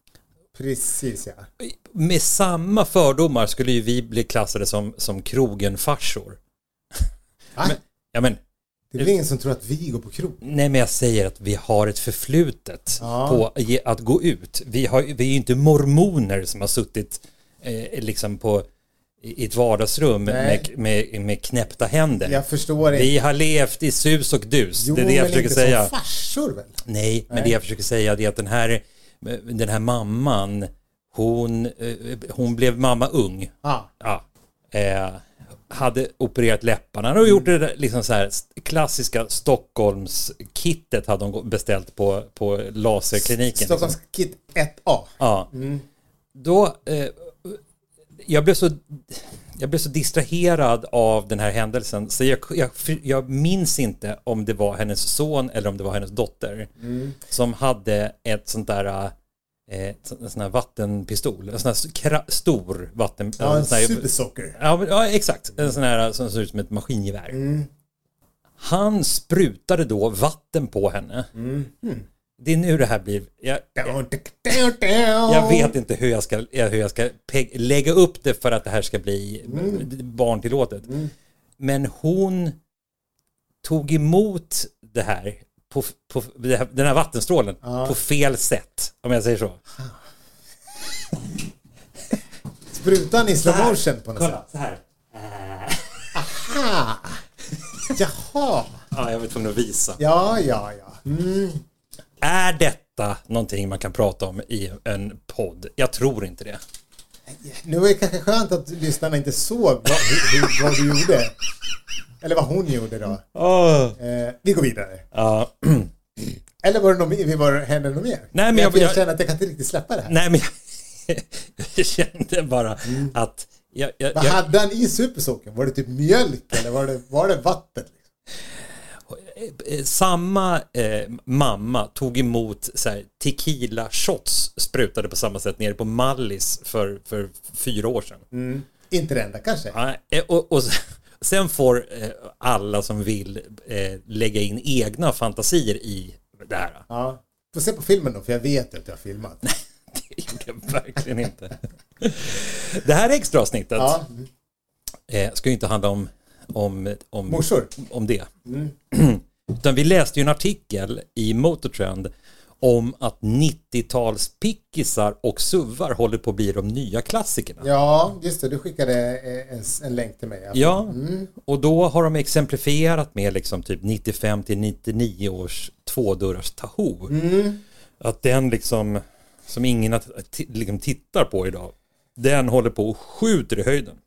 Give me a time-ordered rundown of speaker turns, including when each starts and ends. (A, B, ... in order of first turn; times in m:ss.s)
0:00.5-0:01.5 A
0:01.6-0:06.4 B
0:07.6-0:08.4 B
0:08.9-0:10.4 A
0:10.4-0:18.7 B
0:13.0-0:13.4 A
0:19.2-0:22.4 B
0:20.3-0:20.7 A
0:22.2-0:23.1 A
0:22.9-0:25.9 B
0:24.8-0:27.5 A
0:26.8-0:44.0 B
0:33.6-0:33.9 A
0:43.2-0:45.8 A
0:45.2-0:45.5 B
0:46.3-0:47.6 B
0:48.2-0:56.7 B
0:56.8-0:57.2 A
0:57.3-0:59.1 B
0:59.7-1:07.4 B
1:03.4-1:04.6 A
1:07.3-1:07.7 A
1:08.6-1:11.3 B
1:11.4-1:12.1 A
1:12.4-1:13.9 B
1:13.8-1:15.7 A
1:15.3-1:20.9 B
1:19.5-1:19.9 A
1:21.6-1:22.6 B
1:23.6-1:29.6 B
1:27.6-1:28.0 A
1:32.7-1:34.4 A
1:33.4-1:36.3 B
1:36.2-1:37.2 A
1:37.9-1:38.8 A
1:38.9-1:40.0 B
1:40.0-1:41.6 A
1:42.2-1:46.6 B
1:47.3-1:51.4 A
1:52.2-1:53.2 A
1:53.2-1:54.0 B
1:54.0-1:55.1 A
1:55.1-1:55.9 B
1:56.6-2:00.1 A
1:58.3-1:59.0 B
2:00.1-2:04.4 B
2:02.8-2:03.1 A
2:04.1-2:08.0 A
2:09.1-2:18.2 B
2:18.3-2:19.8 A
2:19.7-2:26.8 B
2:26.9-2:29.5 A
2:29.4-2:34.0 B
2:33.8-2:34.3 A
2:35.1-2:38.3 B
2:37.3-2:37.7 A
2:38.5-2:38.7 A
2:38.9-2:42.1 B
2:42.6-2:47.7 B
2:47.6-2:51.3 A
2:50.6-2:57.1 B
2:57.1-2:57.6 A
2:58.0-3:04.0 B